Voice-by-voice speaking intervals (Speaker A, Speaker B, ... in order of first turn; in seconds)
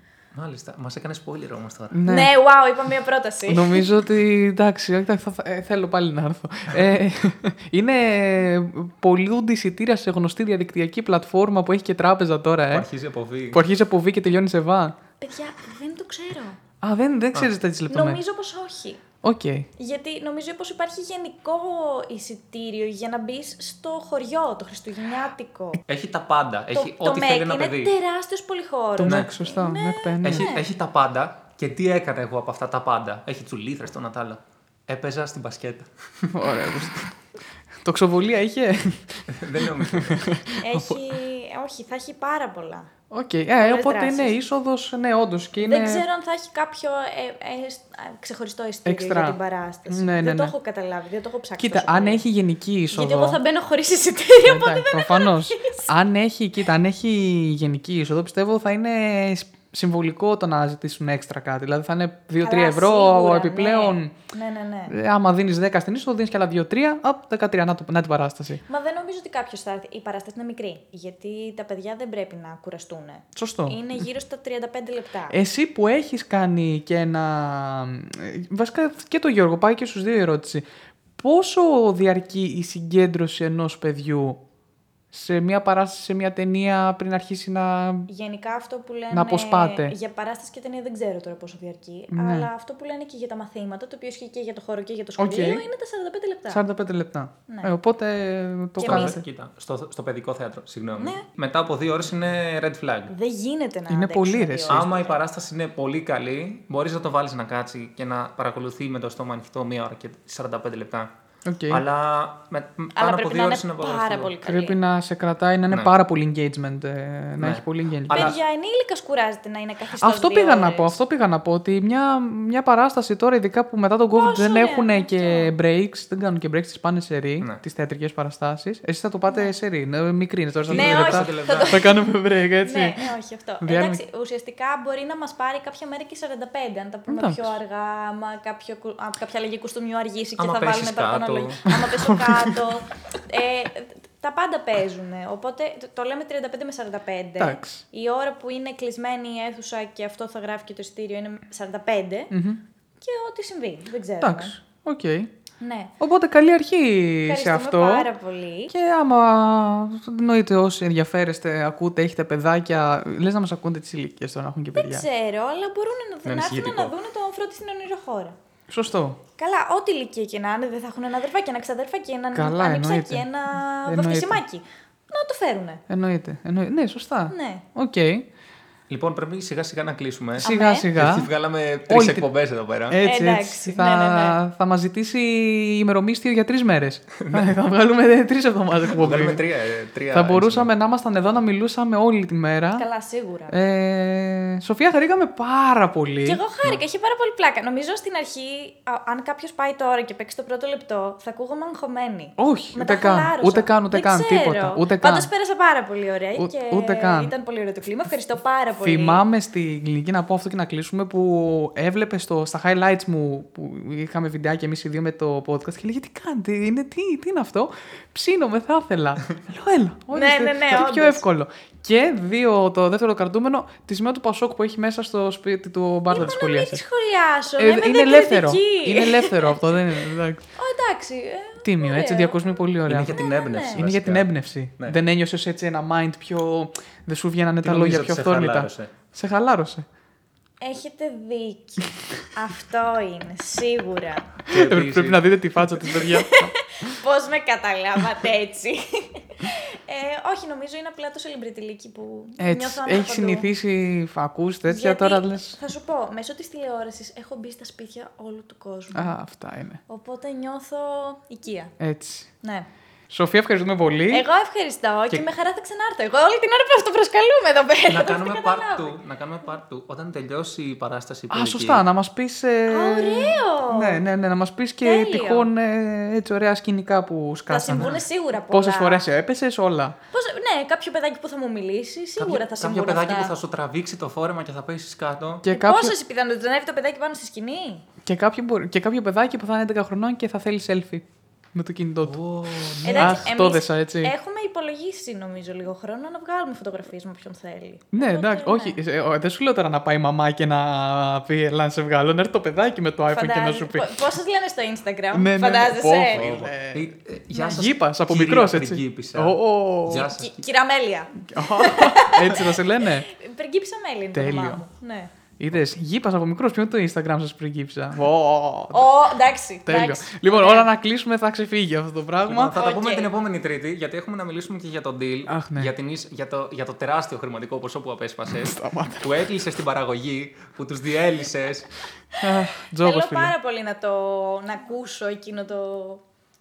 Speaker A: 0.3-2.0, 12.7-13.6, 25.9-27.9, 30.2-36.3, 39.3-40.3, 98.8-103.1, 104.7-111.1, 111.7-114.3, 117.4-118.3, 130.6-131.8, 140.4-141.8, 166.2-166.9, 178.9-183.0, 187.2-187.5, 188.9-190.7, 232.8-235.0, 237.6-238.9, 244.4-245.3, 267.9-271.8, 277.7-278.0, 282.2-285.4, 292.0-293.3, 306.1-310.4, 322.2-331.7
Speaker B: 1.9-2.3, 3.5-12.9, 13.5-15.0, 16.8-18.2, 19.2-19.7, 29.0-30.6, 36.3-37.1, 37.8-41.0, 43.1-46.0, 48.9-49.4, 49.9-50.5, 51.6-53.4, 54.4-64.1, 64.9-68.6, 73.3-74.0, 75.3-80.6, 81.2-84.4, 85.1-88.1, 89.1-89.9, 92.1-92.5, 95.2-95.6, 96.5-99.2, 103.9-104.9, 111.5-111.8, 114.4-118.3, 120.0-134.0, 137.1-137.5, 141.9-142.3, 147.4-147.8, 152.3-152.6, 154.2-155.3, 156.0-158.1, 158.7-165.1, 168.7-169.2, 172.3-173.3, 173.8-174.4, 175.9-178.3, 180.4-181.3, 181.9-182.2, 182.9-189.4, 190.1-192.8, 193.5-196.4, 202.4-205.3, 206.4-207.3, 208.8-226.8, 227.6-230.4, 231.6-233.2, 233.7-239.8, 244.5-246.5, 252.4-255.6, 258.9-259.8, 261.8-262.3, 263.1-264.2, 271.3-280.0, 285.4-285.9, 288.0-292.2, 292.9-294.1, 297.9-303.9, 305.1-310.1, 311.2-313.1, 314.1-314.6, 315.4-318.9, 319.6-322.6, 325.3-325.7, 328.3-329.2, 332.2-333.4
Speaker C: 2.0-3.9, 15.2-16.6, 17.9-19.0, 19.8-25.8, 26.7-30.6, 40.6-42.9, 43.6-44.4, 45.6-52.2, 52.9-55.9, 62.4-64.9, 68.7-75.4, 88.1-96.6, 97.5-97.7, 98.8-99.2, 101.0-101.2, 103.1-105.2, 112.9-114.8, 118.1-121.0, 124.1-125.5, 130.7-132.1, 132.6-152.3, 153.0-154.6, 155.6-155.9, 157.2-158.7, 164.7-168.3, 169.4-175.8, 177.3-177.6, 180.4-180.9, 183.0-184.4, 192.8-193.6, 196.2-209.2, 220.1-221.2, 226.1-229.8, 230.6-232.5, 233.1-233.8, 240.6-244.3, 246.0-253.5, 254.7-259.1, 259.9-261.7, 262.4-262.7, 264.1-269.0, 272.7-274.0, 274.8-275.5, 277.5-279.1, 280.1-283.3, 285.5-287.9, 292.8-298.8, 303.1-306.3, 309.9-315.1, 318.7-320.7, 322.6-323.1, 332.6-336.0